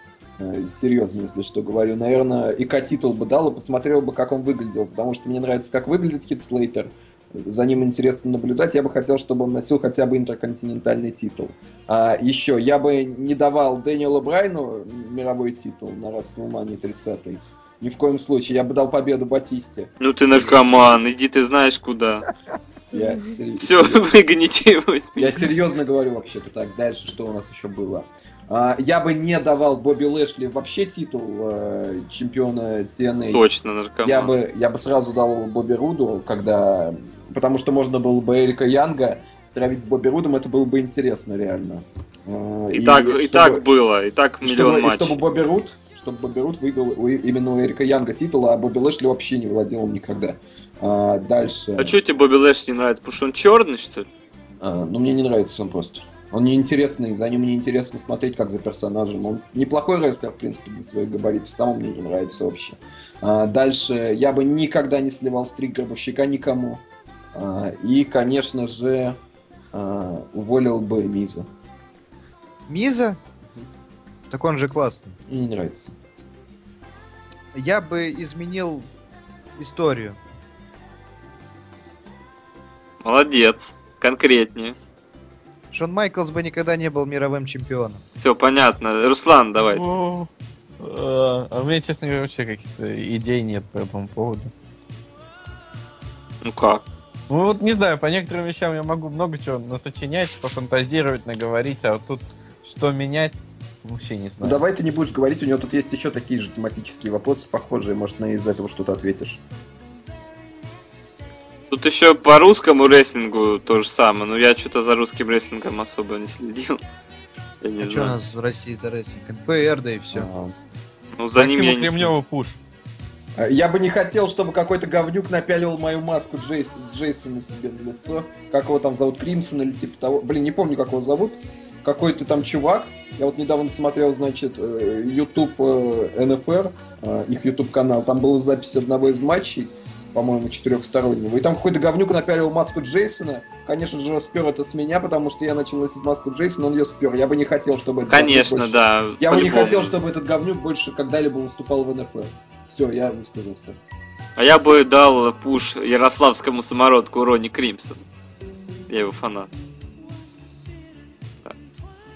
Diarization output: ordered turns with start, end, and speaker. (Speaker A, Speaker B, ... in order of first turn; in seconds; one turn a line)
Speaker A: 0.4-19.9
Speaker B: 20.0-22.2
Speaker A: 22.9-24.0
Speaker B: 23.6-25.5
Speaker A: 25.2-33.4
Speaker B: 33.3-34.3
Speaker A: 34.0-43.6
Speaker B: 42.7-45.2
Speaker A: 44.4-52.0
Speaker B: 51.8-54.1
Speaker A: 54.6-69.2
Speaker A: 69.7-71.5
Speaker C: 72.7-73.2
Speaker C: 74.3-75.2
Speaker A: 75.3-75.9
Speaker C: 77.5-78.9
Speaker C: 79.6-80.2
Speaker B: 83.0-84.8
Speaker C: 85.7-88.0
Speaker B: 88.2-89.8
Speaker D: 89.6-94.5
Speaker B: 96.4-96.8
Speaker D: 97.3-104.6
Speaker A: 104.4-109.4
Speaker B: 111.7-116.8
Speaker B: 117.6-118.1
Speaker C: 117.8-120.3
Speaker A: 120.1-120.5
Speaker B: 121.2-122.1
Speaker D: 121.3-122.6
Speaker A: 123.4-153.8
Speaker B: 148.1-149.9
Speaker B: 154.4-158.0
Speaker B: 158.9-159.5